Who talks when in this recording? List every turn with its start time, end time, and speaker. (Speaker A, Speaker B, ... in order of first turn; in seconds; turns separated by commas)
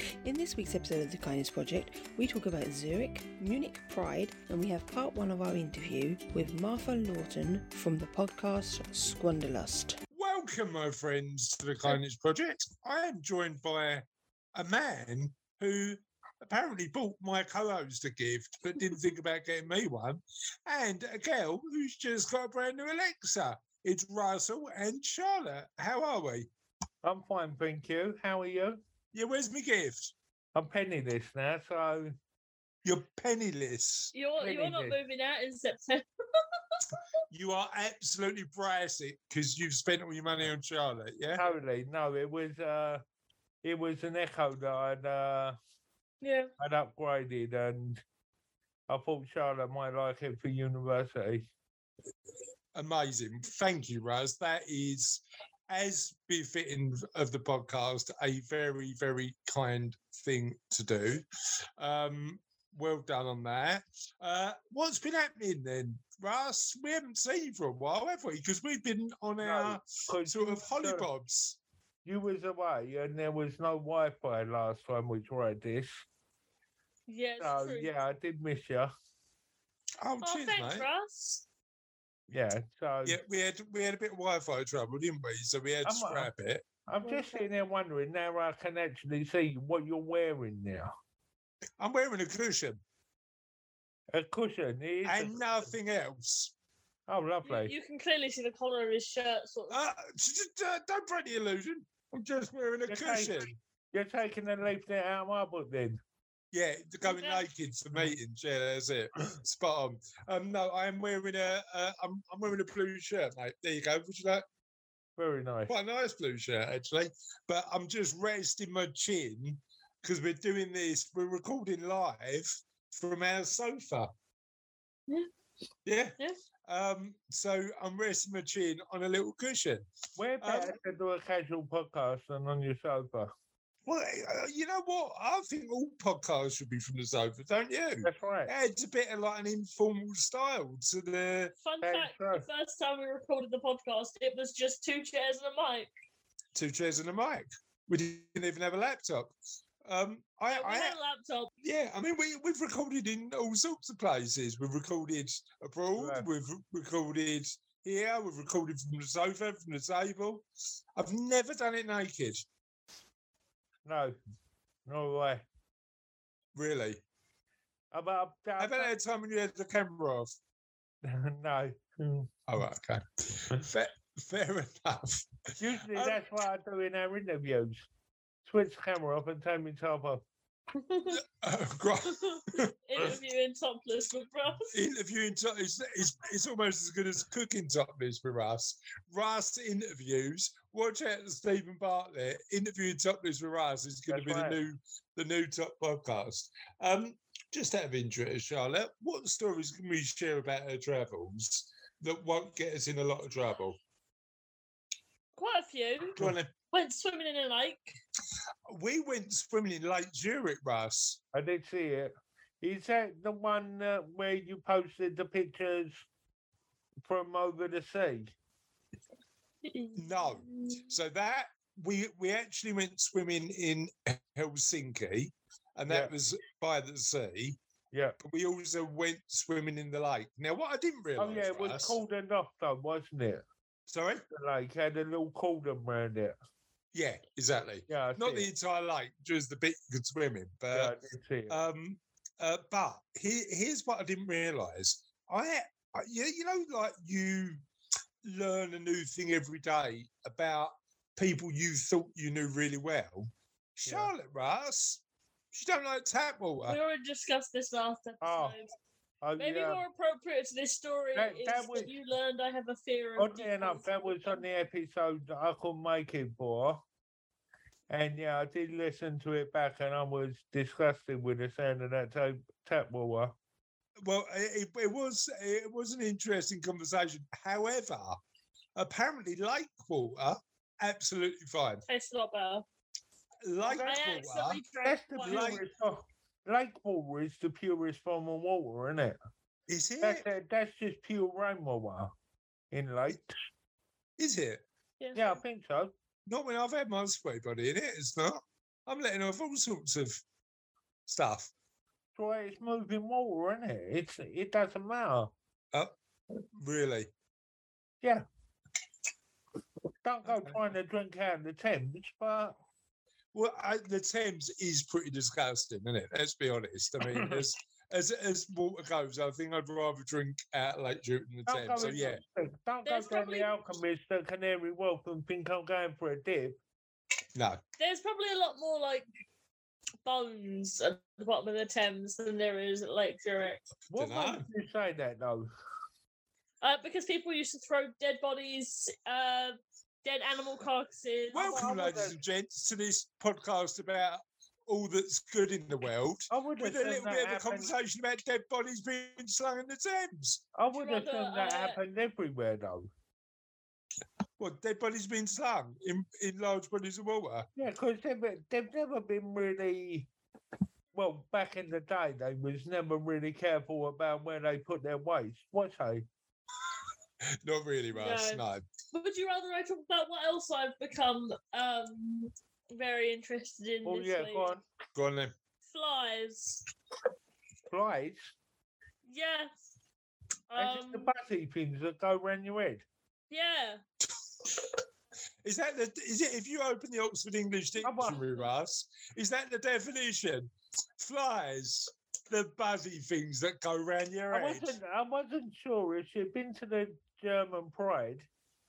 Speaker A: 0.2-10.0, Speaker B: 10.1-26.5, Speaker C: 27.0-28.8, Speaker B: 29.1-30.1, Speaker C: 30.6-32.2, Speaker B: 32.9-34.1, Speaker D: 34.1-36.1, Speaker C: 34.4-35.0, Speaker B: 37.3-41.4, Speaker C: 41.4-43.0, Speaker C: 43.6-45.6, Speaker D: 46.2-46.5, Speaker C: 46.6-48.0, Speaker C: 48.9-51.5, Speaker B: 52.8-61.2, Speaker B: 61.8-71.6, Speaker C: 69.4-71.1, Speaker C: 72.0-76.0, Speaker D: 77.1-77.9, Speaker C: 77.4-78.9, Speaker B: 80.0-80.9, Speaker D: 80.2-81.4, Speaker C: 82.3-83.2, Speaker B: 83.0-86.7, Speaker C: 85.8-86.3, Speaker C: 86.9-90.9, Speaker D: 87.0-87.4, Speaker B: 91.8-92.8, Speaker C: 94.1-95.7, Speaker B: 95.1-96.5, Speaker C: 97.1-97.7, Speaker D: 97.5-99.8, Speaker B: 99.7-103.5, Speaker C: 102.9-106.0, Speaker B: 106.5-114.4, Speaker D: 107.0-107.5, Speaker C: 115.2-115.7, Speaker B: 115.7-124.1, Speaker B: 125.9-126.2, Speaker B: 126.7-129.9, Speaker C: 130.2-133.3, Speaker B: 130.4-130.8, Speaker B: 133.9-141.5, Speaker C: 138.0-138.5, Speaker D: 141.6-145.9, Speaker C: 141.8-142.5, Speaker B: 146.6-151.0, Speaker D: 150.5-151.5, Speaker B: 151.6-160.4, Speaker C: 156.0-156.3, Speaker B: 161.0-162.4, Speaker C: 163.8-164.2, Speaker C: 164.9-165.4, Speaker B: 166.6-167.0, Speaker C: 167.9-168.9, Speaker B: 168.6-170.3, Speaker C: 171.0-172.3, Speaker B: 172.5-176.2, Speaker C: 175.6-177.9, Speaker C: 178.5-180.2, Speaker D: 180.8-181.2, Speaker B: 181.1-183.1, Speaker D: 182.7-184.7, Speaker B: 184.7-203.8, Speaker C: 194.1-194.6, Speaker D: 205.4-206.2, Speaker B: 206.2-206.5, Speaker D: 206.7-208.0, Speaker B: 208.7-211.2, Speaker C: 211.3-216.1, Speaker C: 217.0-218.3, Speaker D: 219.6-221.0, Speaker B: 220.0-227.6, Speaker B: 228.2-232.0, Speaker C: 231.2-233.4, Speaker B: 233.9-234.2, Speaker C: 234.3-236.4, Speaker B: 236.9-240.9, Speaker C: 237.9-238.5, Speaker C: 240.7-241.6, Speaker B: 241.5-247.6, Speaker B: 248.2-255.0, Speaker C: 253.9-254.1, Speaker B: 255.5-256.8, Speaker D: 256.7-258.7, Speaker C: 258.2-258.6, Speaker C: 259.2-259.8, Speaker D: 259.4-264.4, Speaker C: 261.1-261.9, Speaker C: 263.2-266.8, Speaker C: 267.9-273.3, Speaker B: 274.0-278.2, Speaker B: 278.8-281.8, Speaker D: 281.9-282.6, Speaker B: 283.4-284.6, Speaker C: 283.7-284.0, Speaker D: 283.8-285.6, Speaker C: 284.8-289.2, Speaker B: 285.3-285.6, Speaker B: 289.7-290.2, Speaker C: 290.0-292.1, Speaker C: 292.7-293.4, Speaker B: 294.2-294.6, Speaker D: 295.0-295.4, Speaker C: 295.1-295.9, Speaker B: 296.3-300.2, Speaker B: 301.1-301.5, Speaker C: 302.2-305.3, Speaker B: 306.6-307.1, Speaker C: 310.0-312.6, Speaker B: 313.3-322.2, Speaker C: 321.5-326.6, Speaker D: 322.9-323.5, Speaker B: 327.4-327.6, Speaker D: 327.8-329.1, Speaker D: 330.1-333.6, Speaker B: 333.9-334.5, Speaker C: 333.9-335.5, Speaker D: 336.6-341.7, Speaker B: 341.3-350.4, Speaker C: 341.3-342.2, Speaker C: 346.3-347.7, Speaker C: 350.6-352.9, Speaker D: 350.8-351.8, Speaker B: 354.4-357.5, Speaker C: 357.6-360.1, Speaker C: 360.9-366.1, Speaker B: 367.4-368.6, Speaker D: 367.9-374.5, Speaker C: 373.9-374.6, Speaker B: 374.9-375.3, Speaker D: 375.7-376.6, Speaker C: 377.7-378.3, Speaker D: 379.1-379.5, Speaker D: 380.5-381.1, Speaker C: 380.6-382.9, Speaker D: 383.3-383.8, Speaker B: 385.4-394.8, Speaker C: 387.8-388.2, Speaker C: 394.3-398.3